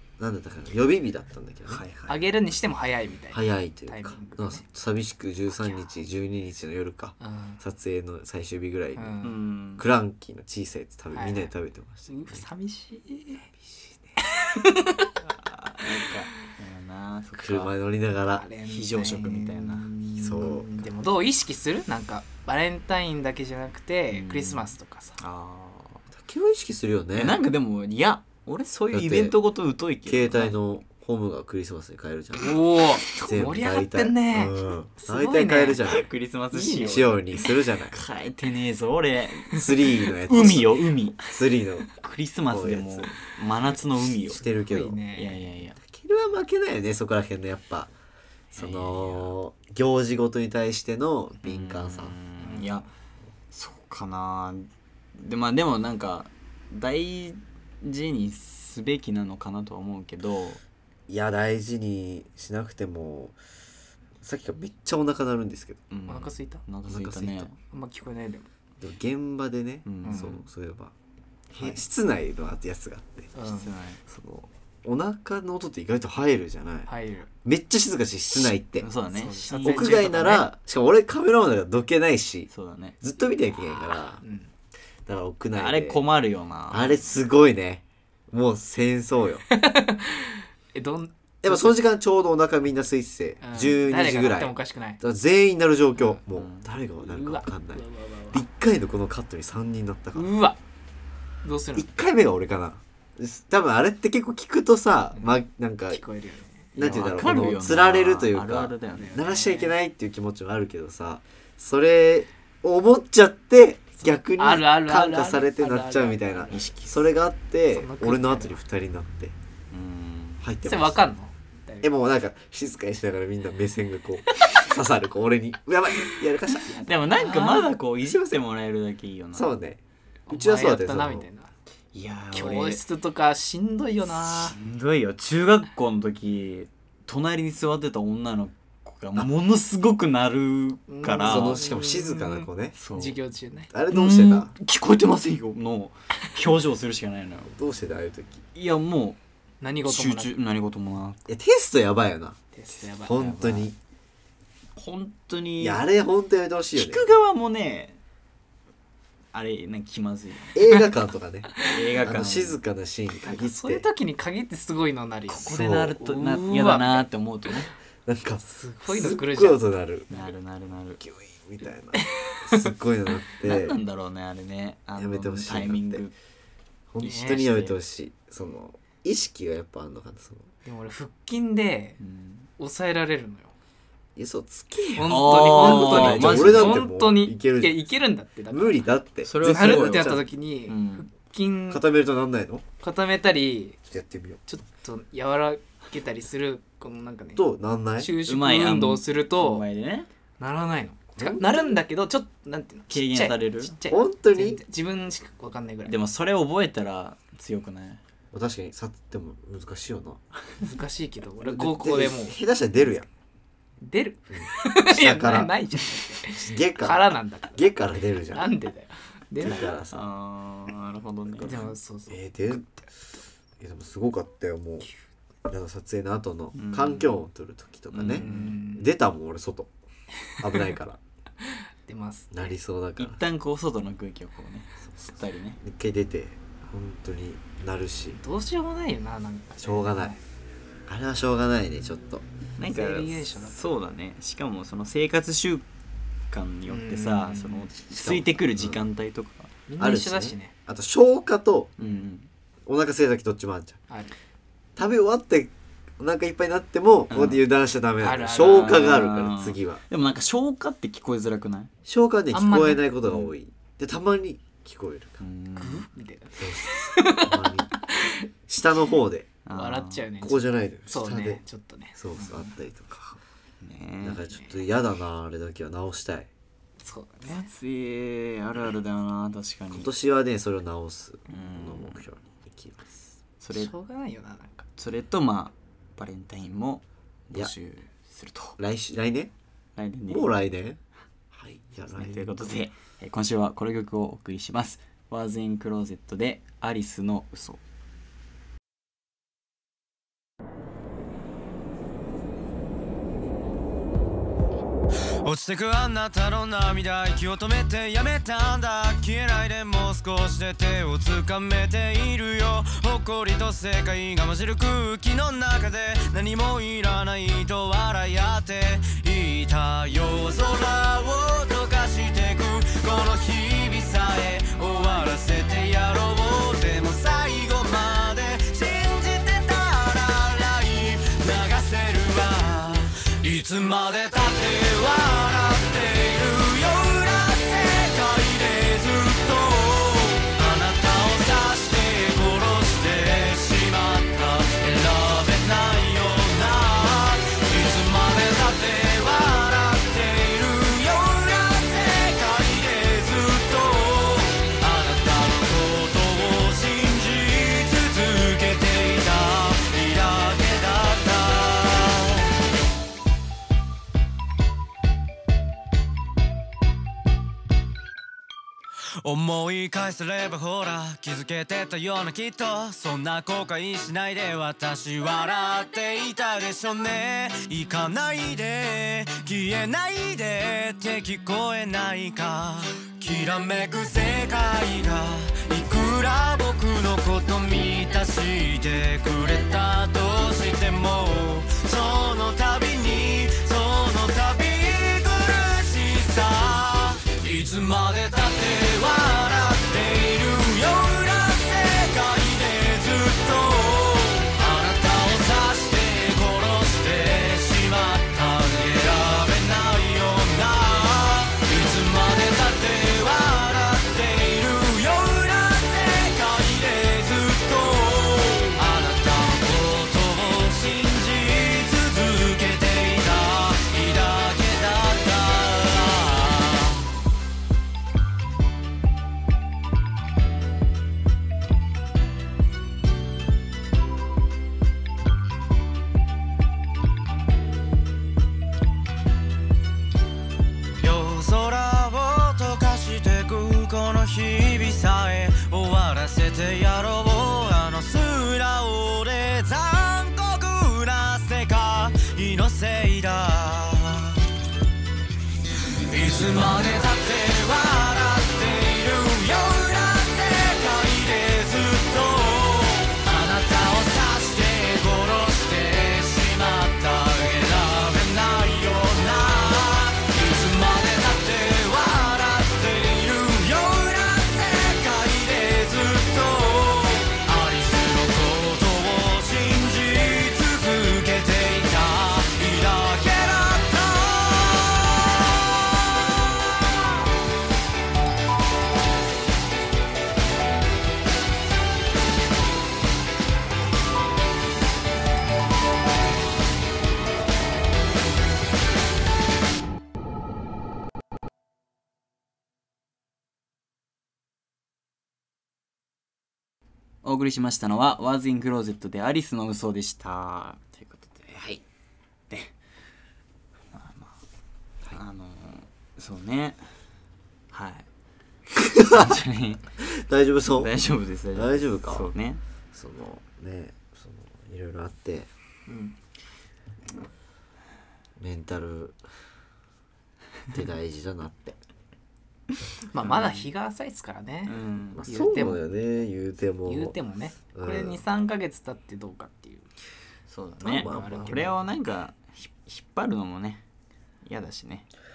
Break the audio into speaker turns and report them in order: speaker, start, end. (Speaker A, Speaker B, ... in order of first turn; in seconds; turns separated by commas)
Speaker A: 0.2-1.8, Speaker B: 1.7-2.3, Speaker C: 2.1-4.6, Speaker A: 3.3-9.2, Speaker C: 7.2-7.6, Speaker C: 8.9-9.4, Speaker B: 9.2-9.8, Speaker A: 9.8-12.4, Speaker C: 11.1-11.5, Speaker C: 12.1-13.5, Speaker A: 13.6-13.9, Speaker C: 14.2-15.1, Speaker B: 15.2-17.7, Speaker A: 17.4-18.4, Speaker C: 18.3-25.2, Speaker B: 18.6-19.9, Speaker A: 20.2-20.8, Speaker B: 24.1-26.0, Speaker A: 26.1-27.4, Speaker B: 27.1-30.5, Speaker A: 28.9-29.4, Speaker A: 30.0-36.0, Speaker C: 32.4-35.9, Speaker B: 35.8-37.1, Speaker C: 36.5-37.0, Speaker A: 36.7-38.0, Speaker B: 37.9-39.7, Speaker A: 39.5-41.9, Speaker B: 40.2-41.2, Speaker B: 42.0-44.4, Speaker A: 42.5-43.1, Speaker A: 44.3-45.0, Speaker C: 44.5-45.5, Speaker B: 45.1-45.8, Speaker A: 45.9-47.9, Speaker A: 48.5-52.1, Speaker B: 48.5-49.3, Speaker B: 51.4-52.9, Speaker C: 52.4-52.8, Speaker B: 53.5-60.6, Speaker A: 61.1-63.4, Speaker A: 64.2-65.8, Speaker B: 65.9-67.5, Speaker C: 66.1-66.6, Speaker A: 66.9-67.5, Speaker C: 67.6-68.5, Speaker A: 68.8-70.9, Speaker B: 69.8-70.4, Speaker C: 70.0-70.4, Speaker A: 71.5-73.3, Speaker C: 73.3-73.7, Speaker B: 73.4-74.0, Speaker A: 74.1-76.9, Speaker C: 76.9-77.3, Speaker A: 77.4-78.9, Speaker B: 78.8-80.2, Speaker C: 79.1-80.4, Speaker A: 79.5-82.5, Speaker B: 82.5-83.0, Speaker A: 83.0-84.2, Speaker C: 83.8-84.5, Speaker A: 85.0-86.0, Speaker B: 85.5-87.1, Speaker A: 86.7-89.5, Speaker C: 89.5-91.8, Speaker A: 91.4-100.3, Speaker C: 93.4-95.0, Speaker B: 96.3-96.7, Speaker C: 97.0-98.4, Speaker C: 100.1-100.6, Speaker C: 101.4-101.9, Speaker A: 101.8-106.0, Speaker C: 105.9-106.7, Speaker A: 106.7-119.3, Speaker B: 106.8-109.2, Speaker C: 109.0-109.7, Speaker C: 114.0-116.7, Speaker B: 116.5-117.0, Speaker C: 117.7-118.6, Speaker B: 119.7-120.4, Speaker A: 120.4-121.0, Speaker C: 120.6-121.9, Speaker A: 121.8-126.7, Speaker C: 126.6-127.7, Speaker B: 126.7-129.5, Speaker A: 128.0-128.3, Speaker A: 129.3-131.3, Speaker C: 130.3-131.5, Speaker B: 131.9-132.8, Speaker C: 132.3-134.6, Speaker B: 134.1-141.6, Speaker C: 140.9-143.7, Speaker A: 141.2-142.8, Speaker B: 142.8-143.2, Speaker A: 143.7-144.5, Speaker B: 143.9-147.5, Speaker A: 147.5-148.4, Speaker B: 148.5-149.2, Speaker C: 149.6-150.3, Speaker B: 149.8-151.2, Speaker A: 151.3-152.4, Speaker C: 152.5-153.7, Speaker A: 153.0-153.8, Speaker B: 154.8-155.8, Speaker A: 155.6-157.0, Speaker B: 156.7-158.0, Speaker B: 159.3-160.6, Speaker A: 160.5-163.8, Speaker B: 161.6-162.6, Speaker C: 163.2-167.1, Speaker B: 165.4-167.7, Speaker A: 165.4-166.0, Speaker A: 168.0-170.1, Speaker C: 168.4-169.6, Speaker B: 170.1-171.0, Speaker A: 171.0-173.8, Speaker C: 171.9-172.7, Speaker B: 173.4-176.1, Speaker A: 175.0-176.0, Speaker A: 176.9-180.5, Speaker C: 177.0-177.4, Speaker B: 177.0-177.8, Speaker C: 180.6-182.0, Speaker B: 182.0-182.5, Speaker C: 182.6-183.5, Speaker A: 184.2-187.8, Speaker C: 184.9-188.8, Speaker B: 185.1-186.8, Speaker A: 188.5-190.2, Speaker B: 189.2-191.1, Speaker C: 189.4-191.8, Speaker A: 191.7-192.6, Speaker C: 192.8-193.8, Speaker A: 193.8-194.4, Speaker C: 194.5-197.4, Speaker A: 197.3-198.1, Speaker C: 198.0-199.6, Speaker B: 198.2-200.1, Speaker C: 200.4-206.0, Speaker A: 201.2-201.8, Speaker B: 202.9-203.7, Speaker A: 203.9-204.6, Speaker B: 205.8-208.0, Speaker A: 208.3-210.2, Speaker C: 210.6-212.4, Speaker A: 211.4-213.1, Speaker C: 213.8-219.8, Speaker A: 214.3-215.6, Speaker A: 216.3-218.5, Speaker A: 219.4-220.1, Speaker B: 219.9-221.6, Speaker A: 221.4-222.6, Speaker C: 221.4-222.9, Speaker A: 223.6-224.9, Speaker A: 225.5-229.7, Speaker B: 226.5-227.1, Speaker B: 227.9-228.6, Speaker C: 228.1-228.9, Speaker A: 230.4-231.0, Speaker C: 231.4-232.5, Speaker A: 232.3-233.2, Speaker B: 233.0-235.6, Speaker A: 235.6-238.2, Speaker C: 238.2-240.2, Speaker A: 239.6-240.2, Speaker A: 240.9-242.2, Speaker B: 242.6-245.6, Speaker C: 242.6-243.7, Speaker B: 246.3-249.5, Speaker C: 246.7-247.7, Speaker A: 247.9-248.8, Speaker C: 249.7-250.5, Speaker A: 249.8-251.7, Speaker B: 251.8-252.3, Speaker A: 252.7-253.8, Speaker A: 254.8-259.8, Speaker B: 257.1-257.4, Speaker C: 258.0-259.0, Speaker B: 258.4-261.7, Speaker A: 261.9-265.2, Speaker C: 262.3-262.8, Speaker B: 265.2-265.9, Speaker C: 265.6-268.2, Speaker A: 266.4-267.7, Speaker A: 268.5-269.3, Speaker B: 269.4-270.1, Speaker C: 269.5-272.5, Speaker A: 270.2-271.4, Speaker A: 271.9-273.1, Speaker B: 273.6-274.2, Speaker A: 274.0-276.3, Speaker C: 274.3-274.6, Speaker C: 276.8-277.5, Speaker B: 277.2-279.9, Speaker A: 279.7-283.1, Speaker B: 281.3-282.0, Speaker B: 283.4-283.7, Speaker C: 283.5-284.7, Speaker B: 284.8-288.6, Speaker A: 288.6-289.3, Speaker B: 289.8-290.3, Speaker A: 290.1-290.8, Speaker A: 291.3-292.5, Speaker B: 291.9-297.6, Speaker D: 305.2-362.3, Speaker D: 369.0-426.9, Speaker D: 440.8-454.2, Speaker D: 455.9-485.2, Speaker B: 507.0-511.6, Speaker B: 513.7-514.2, Speaker B: 514.9-516.7, Speaker B: 517.5-517.9, Speaker A: 518.5-519.2, Speaker B: 518.8-519.6, Speaker A: 519.8-520.8, Speaker B: 520.5-522.4, Speaker A: 521.3-522.1, Speaker A: 522.7-525.3, Speaker C: 525.7-526.0, Speaker A: 528.2-529.0, Speaker A: 530.5-531.6, Speaker C: 532.9-535.6, Speaker B: 533.0-533.5, Speaker B: 534.5-535.0, Speaker A: 535.0-537.0, Speaker C: 536.6-539.7, Speaker A: 537.5-538.0, Speaker B: 540.3-543.6, Speaker C: 540.6-541.6, Speaker A: 540.6-541.6, Speaker B: 544.2-544.9